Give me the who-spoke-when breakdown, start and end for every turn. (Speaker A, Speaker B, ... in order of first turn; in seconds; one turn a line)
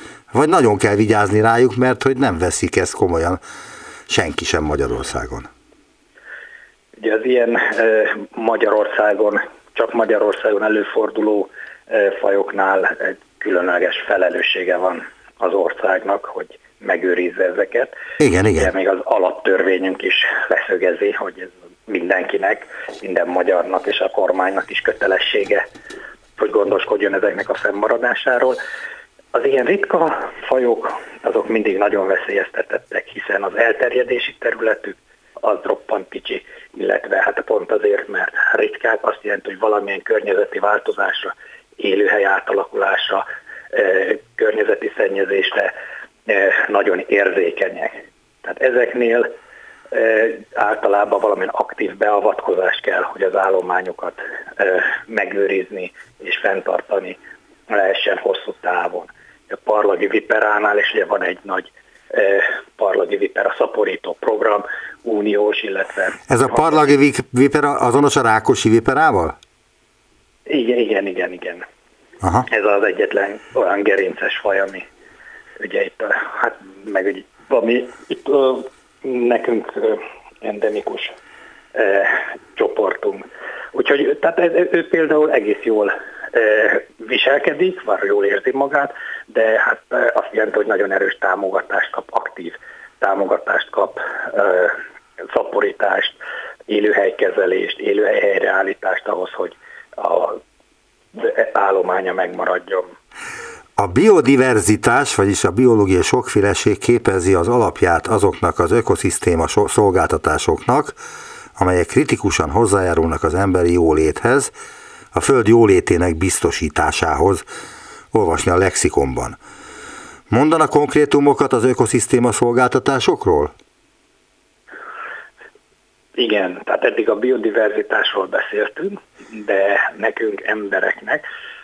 Speaker A: 0.3-3.4
Speaker A: 4.1-5.5
Speaker B: 7.0-17.9
Speaker A: 18.2-18.7
Speaker B: 18.6-25.6
Speaker B: 26.4-28.6
Speaker B: 29.3-45.7
Speaker B: 46.3-49.3
Speaker B: 49.9-57.2
Speaker B: 57.7-66.9
Speaker A: 66.3-69.3
Speaker B: 70.5-71.6
Speaker B: 72.5-74.8
Speaker B: 75.6-81.1
Speaker B: 81.7-94.8
Speaker B: 95.3-100.4
Speaker B: 101.1-102.9
Speaker A: 103.8-111.0
Speaker A: 111.6-114.5
Speaker A: 115.1-117.4
Speaker A: 118.1-119.4
Speaker A: 120.3-123.5
Speaker B: 126.2-131.2